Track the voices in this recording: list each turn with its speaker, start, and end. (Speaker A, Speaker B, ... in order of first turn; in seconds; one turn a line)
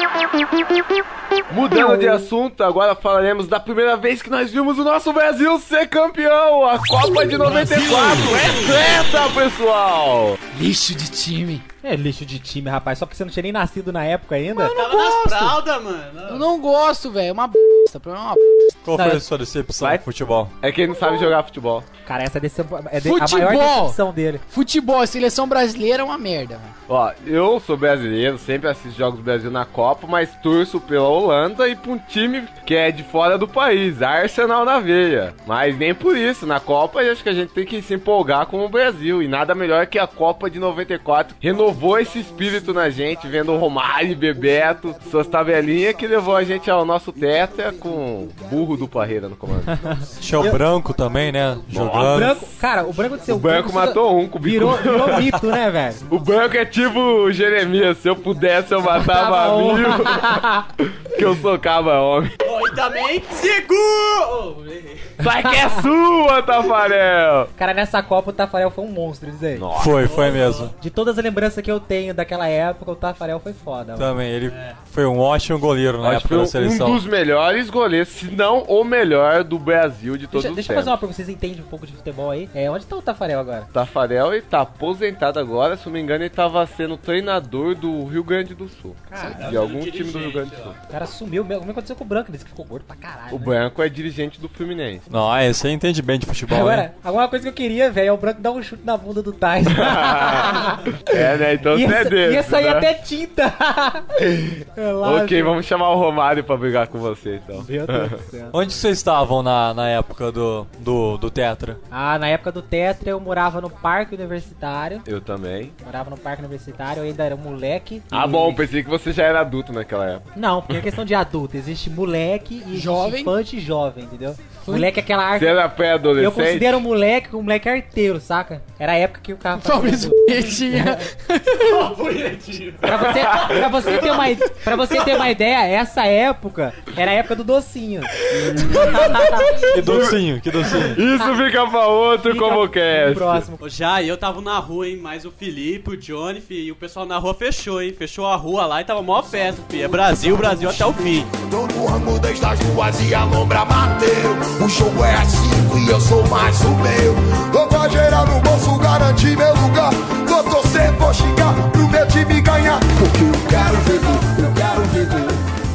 Speaker A: 1.5-10.4
Speaker B: 7.6-8.6
Speaker B: 10.5-11.6
Speaker C: 11.8-14.7
Speaker B: 14.7-15.5
Speaker D: 14.7-16.4
Speaker B: 16.3-18.7
Speaker E: 18.8-20.5
Speaker C: 18.9-19.2
Speaker A: 20.6-21.9
Speaker C: 22.1-24.4
Speaker B: 23.0-24.0
Speaker B: 24.5-26.7
Speaker A: 26.9-49.8
Speaker C: 49.8-50.6
Speaker E: 50.2-52.4
Speaker A: 51.7-52.3
Speaker C: 52.1-56.0
Speaker A: 53.3-55.3
Speaker A: 56.1-62.3
Speaker C: 58.9-60.6
Speaker D: 62.4-65.1
Speaker A: 65.2-67.5
Speaker C: 67.6-69.7
Speaker A: 69.5-70.2
Speaker E: 69.8-70.7
Speaker D: 70.0-70.7
Speaker C: 70.8-74.1
Speaker E: 74.0-77.0
Speaker D: 74.5-74.8
Speaker A: 76.0-81.0
Speaker C: 80.3-83.7
Speaker A: 83.7-90.8
Speaker C: 89.1-89.4
Speaker D: 89.2-90.8
Speaker C: 90.9-93.5
Speaker A: 93.3-95.0
Speaker E: 95.1-96.9
Speaker C: 96.5-104.0
Speaker A: 99.7-102.9
Speaker C: 104.8-105.5
Speaker A: 105.0-108.2
Speaker C: 107.5-108.5
Speaker E: 108.5-111.8
Speaker C: 111.9-115.0
Speaker A: 115.0-115.7
Speaker C: 115.8-118.6
Speaker A: 118.1-120.2
Speaker C: 120.3-125.6
Speaker B: 122.7-123.3
Speaker B: 124.7-124.9
Speaker A: 125.3-126.8
Speaker C: 126.2-131.0
Speaker B: 129.6-131.8
Speaker D: 131.6-133.4
Speaker C: 132.8-138.1
Speaker A: 133.1-133.6
Speaker A: 138.3-139.2
Speaker B: 138.4-138.9
Speaker C: 138.7-139.4
Speaker E: 139.7-141.0
Speaker A: 139.7-140.2
Speaker A: 140.9-143.4
Speaker C: 142.2-143.6
Speaker D: 143.6-151.3
Speaker C: 150.1-150.8
Speaker F: 151.3-165.4